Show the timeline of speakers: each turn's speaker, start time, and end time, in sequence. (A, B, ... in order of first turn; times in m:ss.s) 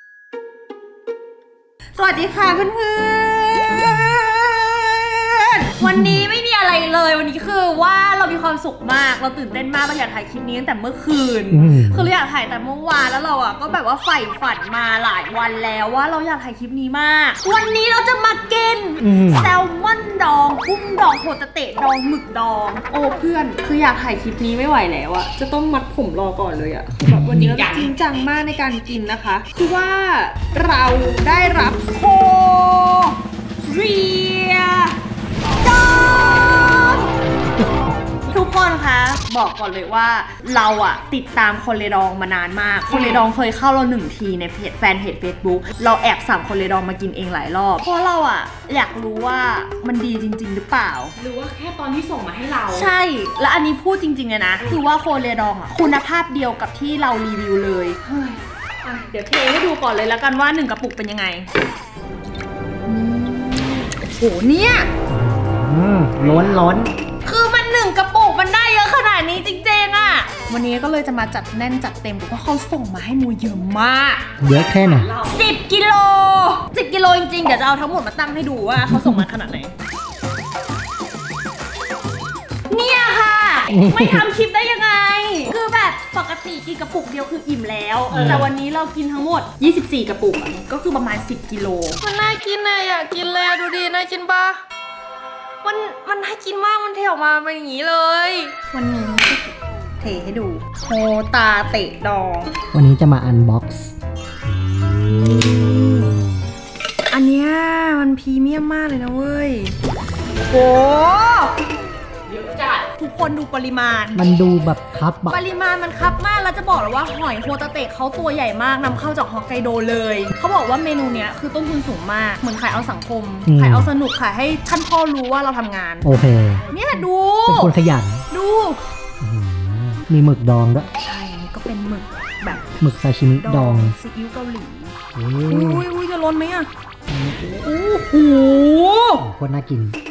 0:01.9-0:35.0 A
0:05.8-0:06.2 B
0:11.5-0:12.1 B
0:19.0-0:19.5 B
0:27.0-0:27.9 C
0:35.6-0:37.1 A
0:38.3-0:51.1 A
0:42.9-0:43.2 C
0:51.2-0:52.9 C
0:52.7-1:01.5 A
1:02.8-1:04.9 A
1:05.1-1:06.9 B
1:07.2-1:14.2 A
1:14.4-1:15.4 C
1:14.4-1:15.1 B
1:15.2-1:19.7 A
1:18.9-1:19.2 B
1:22.7-1:32.0 A
1:23.7-1:24.3 B
1:28.1-1:28.5 C
1:28.1-1:28.4 B
1:32.0-1:34.6 C
1:35.6-1:38.5 C
1:35.8-1:36.4 A
1:38.7-1:42.5 A
1:42.7-1:43.9 B
1:44.5-1:46.1 B
1:45.3-1:46.1 A
1:47.1-1:49.8 A
1:50.5-1:51.5 A
1:52.3-1:52.9 C
1:53.0-1:54.2 A
1:54.1-1:55.4 B
1:55.3-2:06.1 A
2:03.4-2:03.9 B
2:06.0-2:06.7 B
2:06.7-2:07.7 A
2:07.4-2:08.2 B
2:08.3-2:08.8 A
2:09.2-2:10.9 B
2:11.0-2:14.9 A
2:12.8-2:14.0 B
2:15.1-2:15.8 B
2:15.5-2:16.7 A
2:17.1-2:17.5 B
2:17.4-2:19.2 A
2:19.2-2:20.0 B